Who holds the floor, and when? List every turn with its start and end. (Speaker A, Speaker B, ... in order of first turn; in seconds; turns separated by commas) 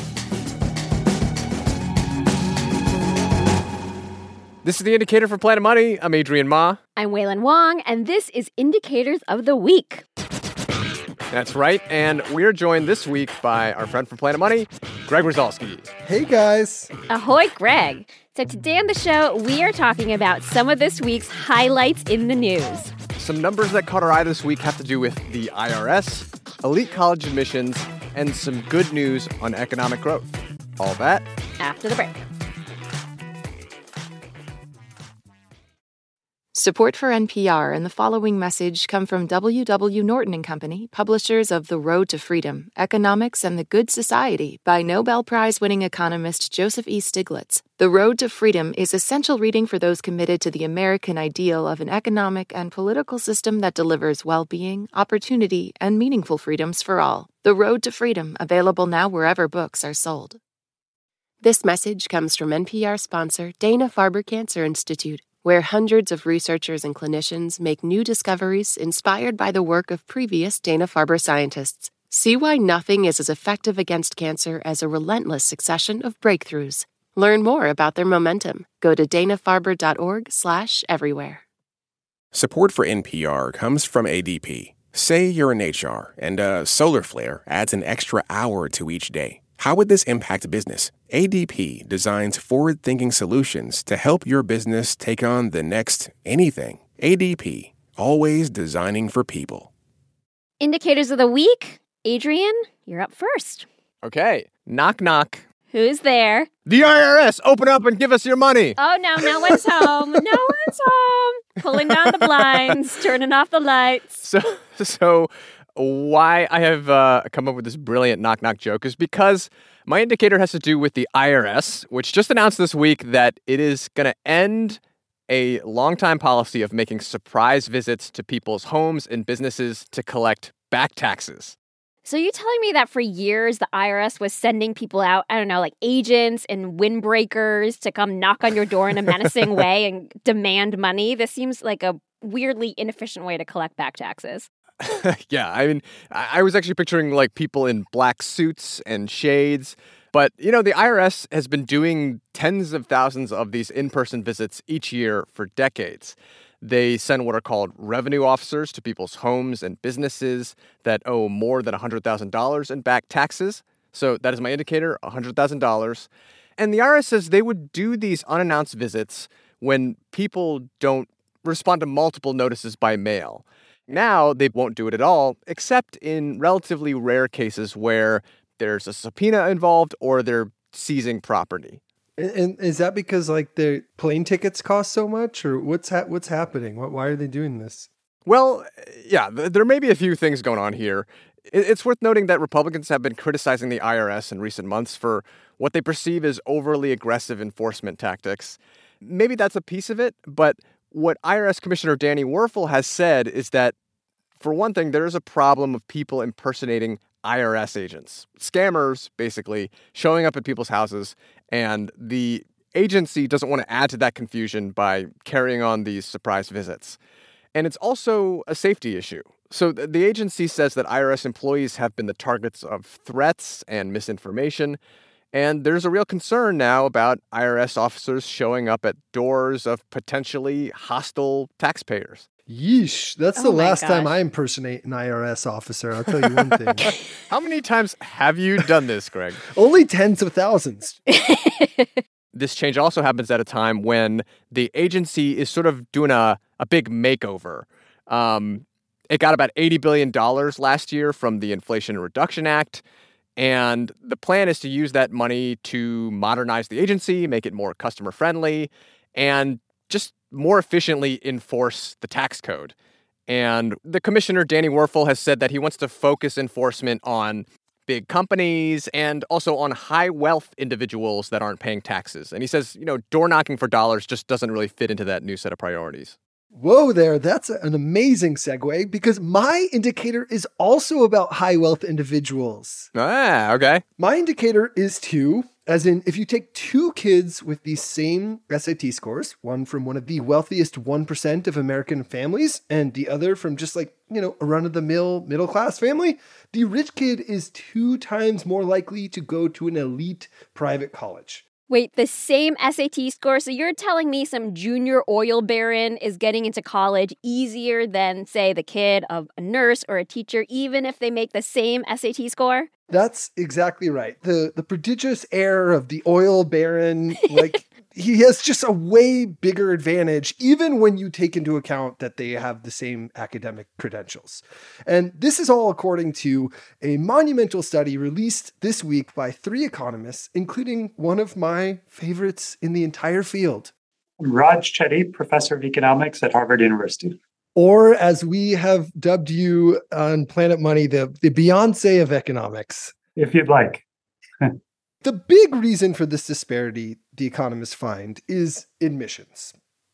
Speaker A: 4.6-6.8, Speaker B: 7.0-10.1, Speaker A: 11.3-15.9, Speaker C: 16.0-16.9, Speaker B: 17.1-22.9, Speaker A: 23.2-31.3, Speaker B: 31.6-32.2, Speaker D: 36.5-60.4, Speaker D: 61.4-81.4, Speaker E: 82.3-99.7, Speaker B: 100.6-103.7, Speaker A: 104.0-105.4, Speaker B: 105.7-106.5, Speaker A: 106.7-108.8, Speaker B: 108.8-114.2, Speaker A: 111.9-112.7, Speaker A: 114.2-131.6, Speaker B: 132.1-144.5, Speaker A: 144.8-181.8, Speaker C: 182.2-187.9, Speaker A: 188.3-203.8, Speaker A: 204.4-217.0, Speaker A: 217.6-224.8, Speaker A: 225.3-232.2, Speaker C: 232.5-236.9, Speaker B: 233.4-234.2, Speaker A: 236.8-239.4, Speaker C: 239.5-241.0, Speaker B: 241.1-242.0, Speaker A: 242.3-252.8, Speaker A: 253.4-262.8, Speaker A: 263.3-276.2, Speaker C: 276.5-282.9, Speaker A: 282.9-283.8, Speaker C: 284.0-301.4, Speaker B: 301.7-312.7, Speaker C: 312.9-333.7, Speaker F: 334.2-337.1, Speaker C: 337.6-342.9, Speaker F: 343.2-343.8, Speaker C: 345.0-349.5